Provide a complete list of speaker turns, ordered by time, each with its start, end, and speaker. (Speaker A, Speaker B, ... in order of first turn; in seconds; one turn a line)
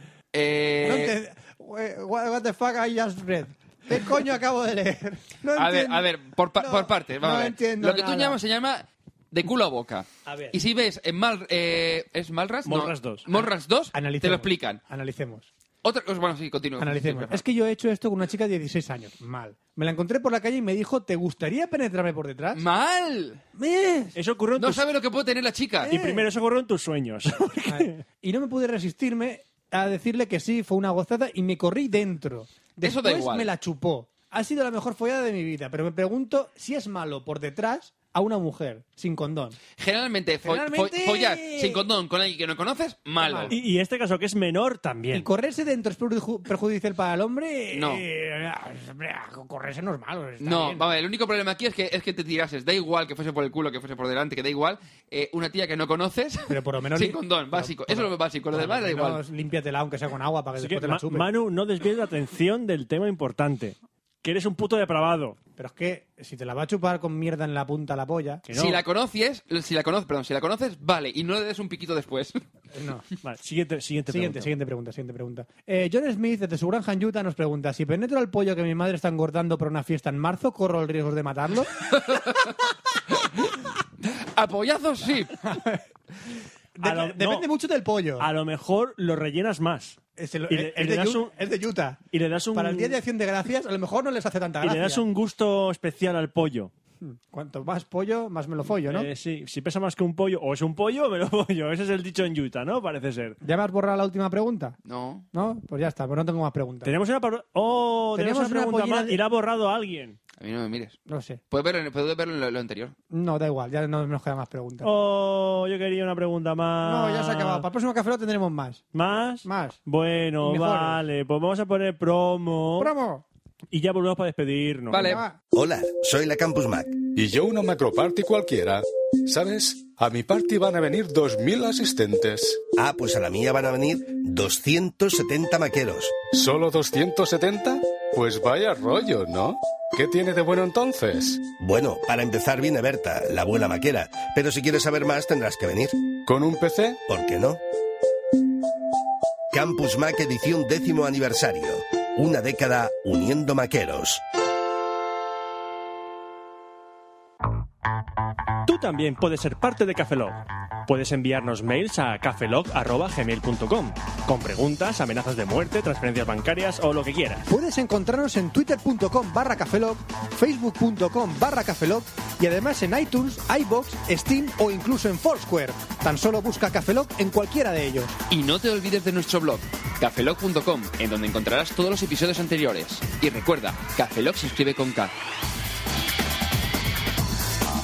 Speaker A: 0.3-1.2
Speaker B: 0.8-8.4
Speaker A: 5.5-14.8
Speaker B: 10.3-10.6
Speaker C: 12.7-13.3
Speaker B: 13.9-15.5
Speaker A: 15.8-17.4
Speaker B: 16.8-22.6
Speaker A: 22.5-23.4
Speaker B: 23.6-24.2
Speaker C: 24.2-24.8
Speaker A: 24.6-25.9
Speaker B: 25.9-26.2
Speaker C: 25.9-28.0
Speaker B: 27.7-39.6
Speaker A: 32.8-33.5
Speaker A: 39.8-43.6
Speaker B: 40.4-41.9
Speaker B: 43.2-43.5
Speaker C: 43.5-45.3
Speaker B: 45.1-50.9
Speaker A: 47.7-48.0
Speaker A: 50.4-59.2
Speaker B: 56.5-61.3
Speaker C: 60.6-65.4
Speaker B: 65.6-68.4
Speaker C: 68.5-68.8
Speaker A: 68.5-72.4
Speaker B: 72.7-73.1
Speaker C: 73.2-74.5
Speaker B: 74.1-81.8
Speaker A: 81.8-85.4
Speaker B: 85.4-85.8
Speaker B: 86.8-88.3
Speaker C: 86.8-87.5
Speaker C: 88.2-90.0
Speaker B: 90.2-92.0
Speaker C: 90.5-91.3
Speaker C: 92.1-93.0
Speaker B: 92.5-95.0
Speaker C: 94.6-96.7
Speaker B: 97.0-99.1
Speaker C: 98.8-103.4
Speaker B: 103.4-104.8
Speaker A: 104.8-105.3
Speaker B: 105.3-107.0
Speaker C: 106.8-110.2
Speaker B: 108.2-109.2
Speaker A: 110.4-111.0
Speaker B: 111.1-111.4
Speaker A: 111.5-112.9
Speaker B: 113.1-114.9
Speaker C: 114.8-117.7
Speaker B: 116.8-118.8
Speaker C: 118.9-122.9
Speaker B: 119.4-119.8
Speaker B: 120.4-121.0
Speaker B: 122.8-123.2
Speaker C: 123.7-125.1
Speaker A: 124.9-125.2
Speaker B: 125.0-125.4
Speaker D: 125.5-127.0
Speaker E: 127.2-132.6
Speaker D: 132.8-136.2
Speaker E: 136.3-141.4
Speaker D: 141.6-146.0
Speaker E: 146.3-147.0
Speaker D: 147.1-147.6
Speaker D: 149.5-154.2
Speaker C: 158.7-167.5
Speaker B: 167.5-178.1
Speaker A: 178.3-185.1